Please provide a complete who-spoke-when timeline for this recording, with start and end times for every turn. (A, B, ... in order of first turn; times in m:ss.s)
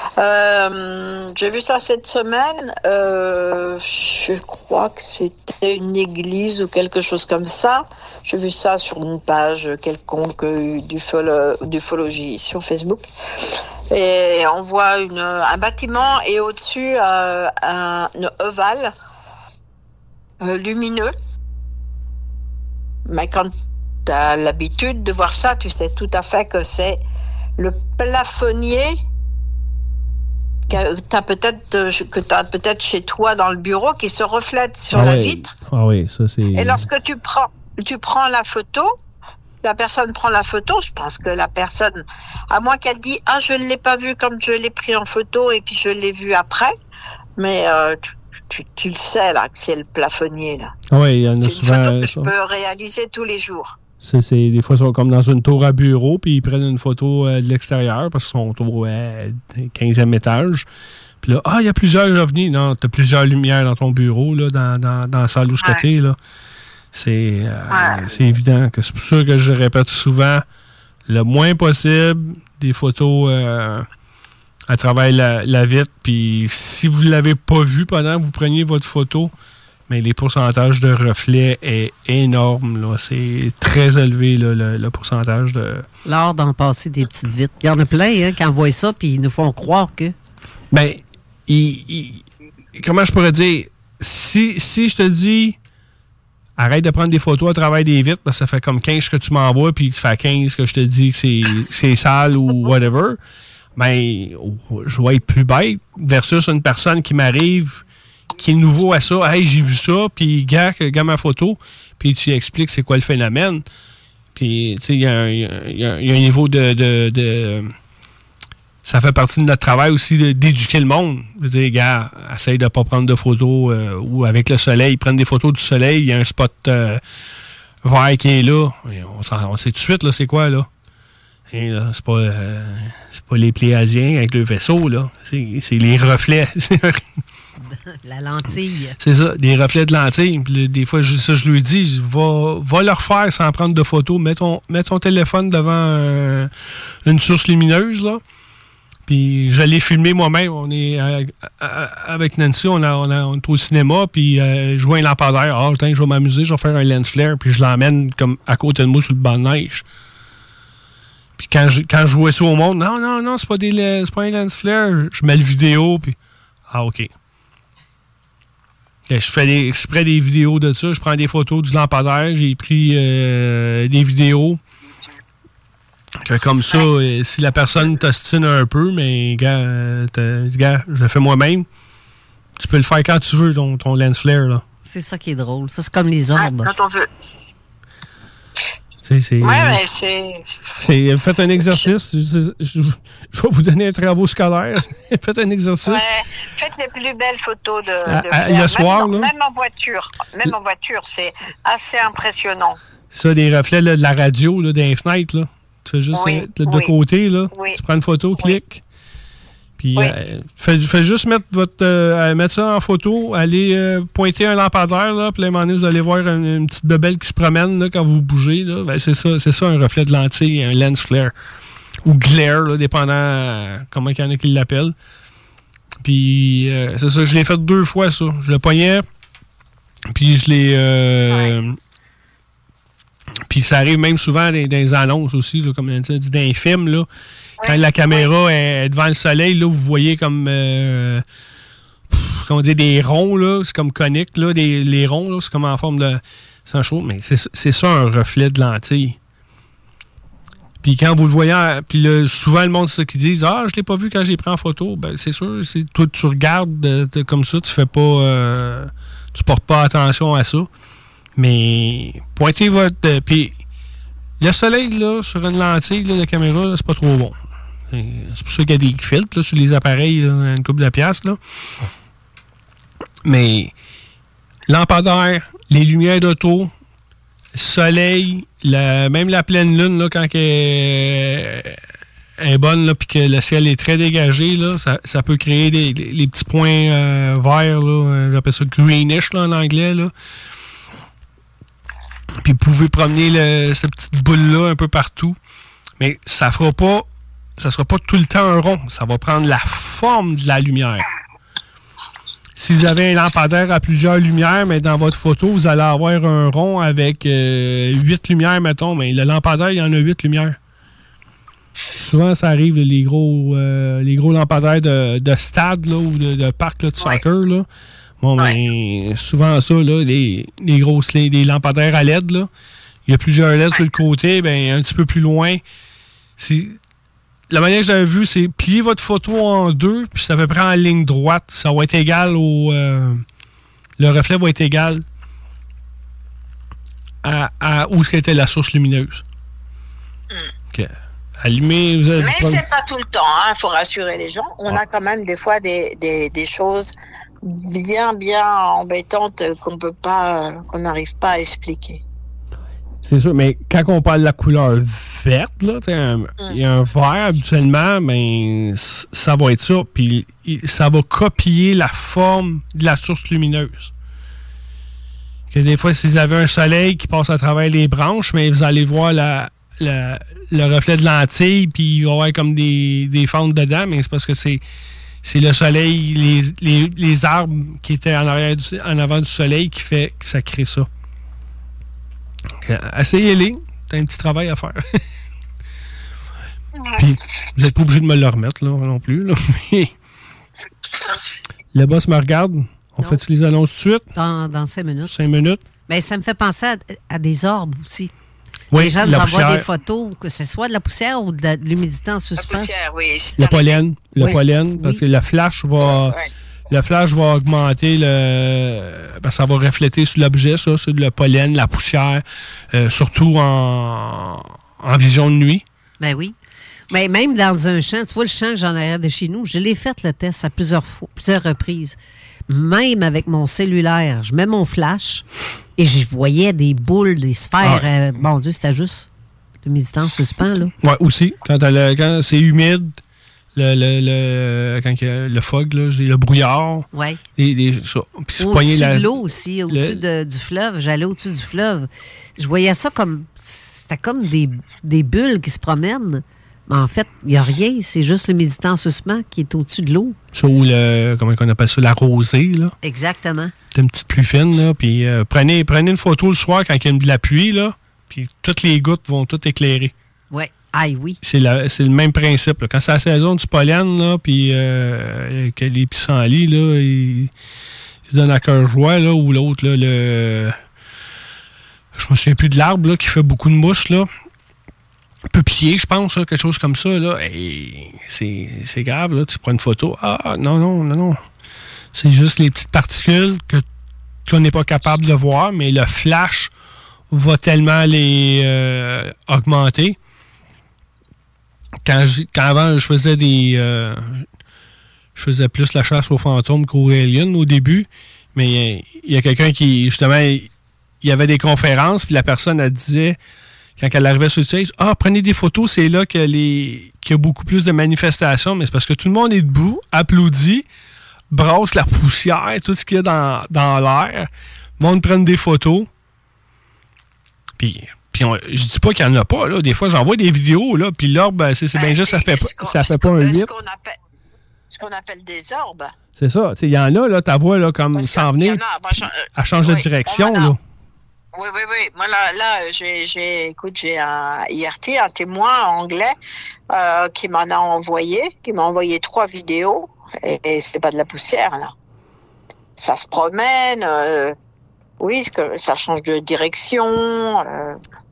0:00.2-0:18.9 A
0:20.4-0:21.1 A
0:23.1-0:23.5 A
0:24.1-0:27.0 A
0:27.6-0:29.0 A
0:30.7-0:35.5 A
0:34.9-0:36.9 B
0:36.6-0:38.9 A
0:39.6-0:46.7 A
0:47.4-0:50.7 A
0:50.9-0:52.3 B
0:51.4-0:53.8 A
0:54.0-1:00.7 B
1:01.2-1:06.2 B
1:06.9-1:10.4 B
1:07.7-1:08.1 A
1:11.1-1:13.9 B
1:14.7-1:19.3 B
1:19.9-1:25.9 B
1:26.0-1:30.1 C
1:30.7-1:35.6 B
1:36.6-1:43.2 B
1:43.8-1:47.8 B
1:48.4-1:53.6 B
1:54.4-1:57.8 B
1:58.8-2:07.0 B
2:07.8-2:10.7 B
2:11.5-2:17.2 B
2:17.6-2:19.0 C
2:19.0-2:26.5 B
2:27.0-2:28.2 B
2:29.1-2:39.9 B
2:41.4-2:46.2 B
2:46.7-2:47.1 B
2:49.1-2:54.6 B
2:56.2-3:01.7 B
3:02.6-3:04.6 B
3:04.8-3:06.7 C
3:06.4-3:07.1 A
3:09.0-3:09.8 B
3:09.4-3:10.7 A
3:10.8-3:16.0 B
3:15.9-3:22.8 A
3:18.1-3:19.3 B
3:23.1-3:28.8 B
3:26.1-3:26.9 A
3:27.5-3:27.8 A
3:29.8-3:41.4 B
3:42.0-3:45.0 B
3:46.0-3:49.0 B
3:50.1-3:51.8 B
3:53.5-3:57.1 B
3:57.6-3:58.3 A
3:57.6-4:01.2 B
4:02.1-4:09.2 B
4:10.8-4:20.7 B
4:21.4-4:23.6 B
4:24.4-4:27.4 B
4:27.9-4:31.4 B
4:33.2-4:33.7 B
4:34.7-4:36.7 B
4:37.5-4:41.8 B
4:42.4-4:50.1 B
4:52.4-4:55.4 B
4:56.0-4:57.1 B
4:57.6-5:01.1 B
5:02.6-5:10.6 B
5:12.0-5:17.7 B
5:18.2-5:22.5 B
5:23.1-5:25.6 B
5:26.4-5:26.8 B
5:27.5-5:33.2 B
5:34.0-5:35.0 B
5:37.2-5:39.2 B
5:40.7-5:42.6 B
5:42.2-5:52.0 A
5:53.0-6:03.9 B
6:05.5-6:14.6 B
6:15.2-6:20.9 B
6:22.6-6:25.0 B
6:26.8-6:27.0 A
6:27.0-6:29.9 B
6:30.9-6:31.4 A
6:31.7-6:34.1 B
6:34.2-6:35.2 C
6:35.1-6:35.6 B
6:35.9-6:38.1 C
6:38.7-6:39.7 B
6:38.8-6:42.7 C
6:42.4-6:43.8 A
6:43.4-6:46.2 B
6:44.2-6:45.0 C
6:45.8-6:46.3 A
6:46.7-6:55.6 B
6:56.0-6:56.4 C
6:56.9-7:02.0 C
7:02.5-7:05.2 C
7:05.8-7:09.1 C
7:07.6-7:07.9 B
7:09.6-7:10.7 C
7:10.8-7:13.0 B
7:13.6-7:20.0 B
7:16.9-7:17.2 C
7:18.4-7:30.2 C
7:30.3-7:32.7 B
7:32.8-7:33.5 C
7:33.7-7:39.9 B
7:40.3-7:41.2 C
7:41.2-7:47.3 B
7:48.1-7:50.6 B
7:51.9-7:54.1 B
7:55.3-8:01.2 B
8:01.9-8:03.6 B
8:04.3-8:06.5 B
8:07.1-8:10.0 B
8:11.8-8:14.3 B
8:15.2-8:20.5 B
8:21.0-8:23.2 B
8:23.8-8:30.7 B
8:31.3-8:35.9 B
8:37.6-8:43.5 B
8:41.8-8:44.0 A
8:44.7-8:46.0 A
8:46.2-8:48.6 B
8:47.9-8:50.6 A
8:49.3-8:50.6 B
8:51.3-8:56.2 A
8:56.7-9:01.7 A
9:02.8-9:04.4 A
9:05.0-9:07.8 A